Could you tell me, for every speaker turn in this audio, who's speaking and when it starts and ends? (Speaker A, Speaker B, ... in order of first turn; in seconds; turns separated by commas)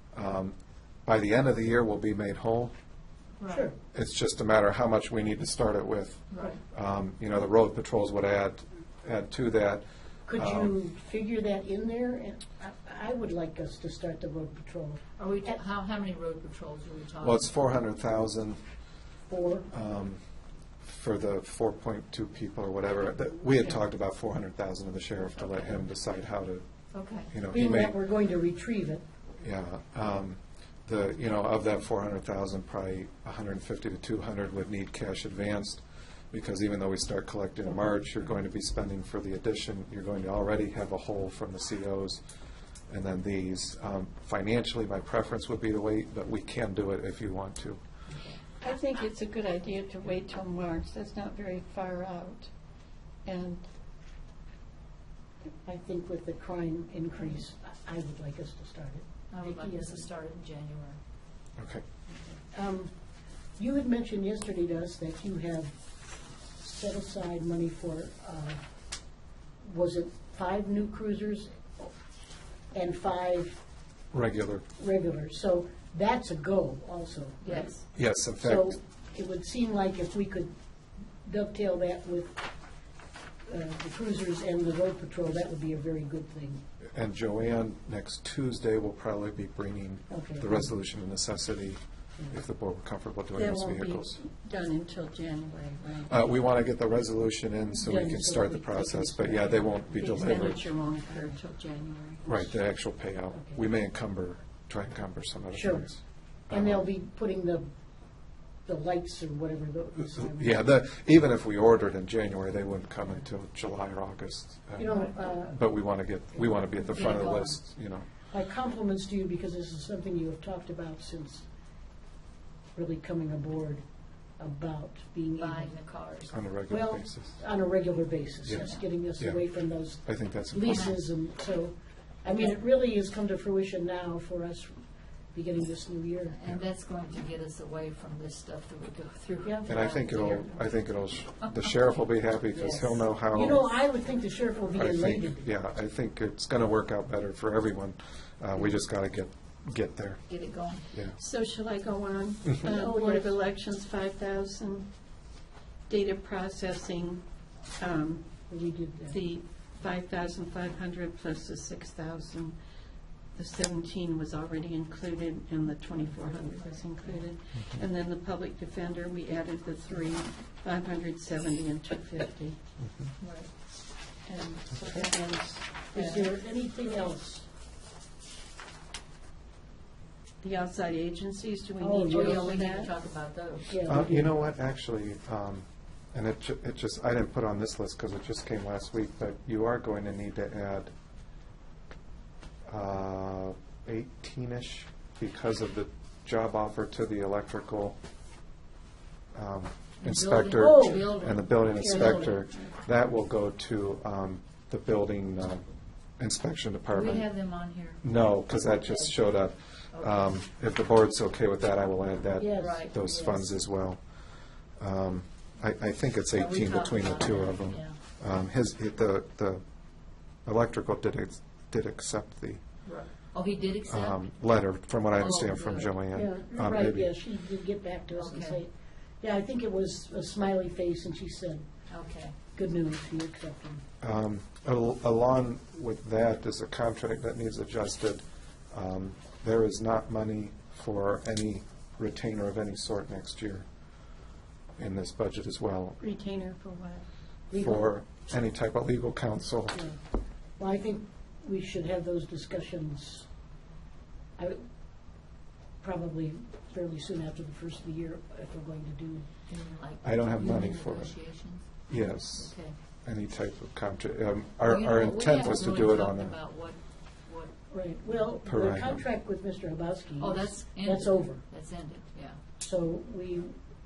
Speaker A: 0.1-0.6, Speaker A: 1.1-2.7, Speaker B: 3.4-3.7, Speaker C: 3.5-3.8, Speaker A: 3.9-10.7, Speaker B: 6.3-6.6, Speaker C: 10.3-15.6, Speaker B: 15.2-17.5, Speaker A: 17.2-18.6, Speaker C: 19.3-19.7, Speaker A: 19.7-20.2, Speaker A: 20.8-26.6, Speaker B: 25.5-25.8, Speaker B: 26.9-27.3, Speaker A: 27.3-28.0, Speaker C: 27.5-29.0, Speaker A: 29.4-42.2, Speaker A: 42.9-47.8, Speaker D: 48.6-52.5, Speaker D: 53.2-53.7, Speaker C: 55.7-60.1, Speaker B: 59.3-61.0, Speaker A: 61.6-61.8, Speaker C: 62.5-62.9, Speaker C: 63.6-65.7, Speaker C: 66.6-68.6, Speaker C: 69.6-72.0, Speaker C: 72.7-73.6, Speaker A: 74.1-74.7, Speaker C: 74.8-80.5, Speaker B: 77.4-77.8, Speaker A: 78.0-78.8, Speaker C: 81.2-82.5, Speaker C: 83.5-86.6, Speaker A: 87.0-94.2, Speaker C: 90.1-90.7, Speaker D: 93.3-96.2, Speaker A: 96.1-100.7, Speaker C: 97.8-100.4, Speaker D: 100.0-101.4, Speaker B: 101.1-102.2, Speaker A: 102.2-106.8, Speaker C: 103.3-103.6, Speaker C: 105.5-105.9, Speaker C: 106.5-107.7, Speaker C: 108.7-110.6, Speaker A: 110.2-118.1, Speaker C: 114.8-115.7, Speaker C: 116.3-117.6, Speaker B: 116.9-117.6, Speaker C: 118.3-121.5, Speaker C: 122.8-123.8, Speaker C: 124.4-125.7, Speaker B: 125.4-126.3, Speaker A: 126.3-127.4, Speaker C: 126.7-134.8, Speaker B: 128.6-128.8, Speaker A: 129.2-130.9, Speaker B: 130.7-131.0, Speaker C: 135.3-136.4, Speaker B: 136.3-140.7, Speaker C: 139.4-139.7, Speaker A: 139.7-143.7, Speaker B: 141.5-141.7, Speaker C: 142.6-145.5, Speaker B: 142.6-142.9, Speaker A: 144.8-150.2, Speaker B: 150.3-150.9, Speaker A: 150.9-151.2, Speaker D: 151.2-154.9, Speaker C: 152.6-153.4, Speaker D: 155.9-157.2, Speaker D: 157.8-158.5, Speaker C: 158.5-159.2, Speaker D: 159.1-162.6, Speaker D: 163.3-172.6, Speaker B: 165.9-167.3, Speaker A: 172.8-173.1, Speaker B: 173.2-173.5, Speaker D: 174.2-176.3, Speaker C: 175.9-177.5, Speaker D: 180.4-182.9, Speaker C: 181.8-182.6, Speaker B: 182.1-183.8, Speaker C: 183.7-184.3, Speaker A: 183.9-190.9, Speaker A: 192.7-198.0, Speaker A: 199.3-205.7, Speaker B: 200.0-202.5, Speaker C: 200.6-202.4, Speaker A: 206.2-207.3, Speaker B: 206.9-209.1, Speaker A: 208.0-214.0, Speaker B: 209.9-210.3, Speaker C: 212.4-212.9, Speaker B: 212.6-213.6, Speaker A: 214.8-219.6, Speaker B: 216.3-218.0, Speaker A: 220.4-222.6, Speaker B: 222.8-224.2, Speaker A: 223.9-227.1, Speaker B: 225.2-225.9, Speaker C: 226.1-231.7, Speaker B: 228.1-228.6, Speaker B: 231.9-232.3, Speaker C: 232.6-233.8, Speaker A: 234.0-243.7, Speaker A: 244.8-246.0, Speaker D: 246.0-247.1, Speaker C: 247.5-247.9, Speaker A: 247.6-249.8, Speaker C: 250.6-253.3, Speaker C: 255.8-259.2, Speaker B: 259.5-262.8, Speaker A: 260.0-261.2, Speaker A: 261.9-266.4, Speaker B: 264.6-267.5, Speaker C: 267.7-271.4, Speaker A: 268.4-269.1, Speaker B: 270.2-272.4, Speaker C: 272.6-273.5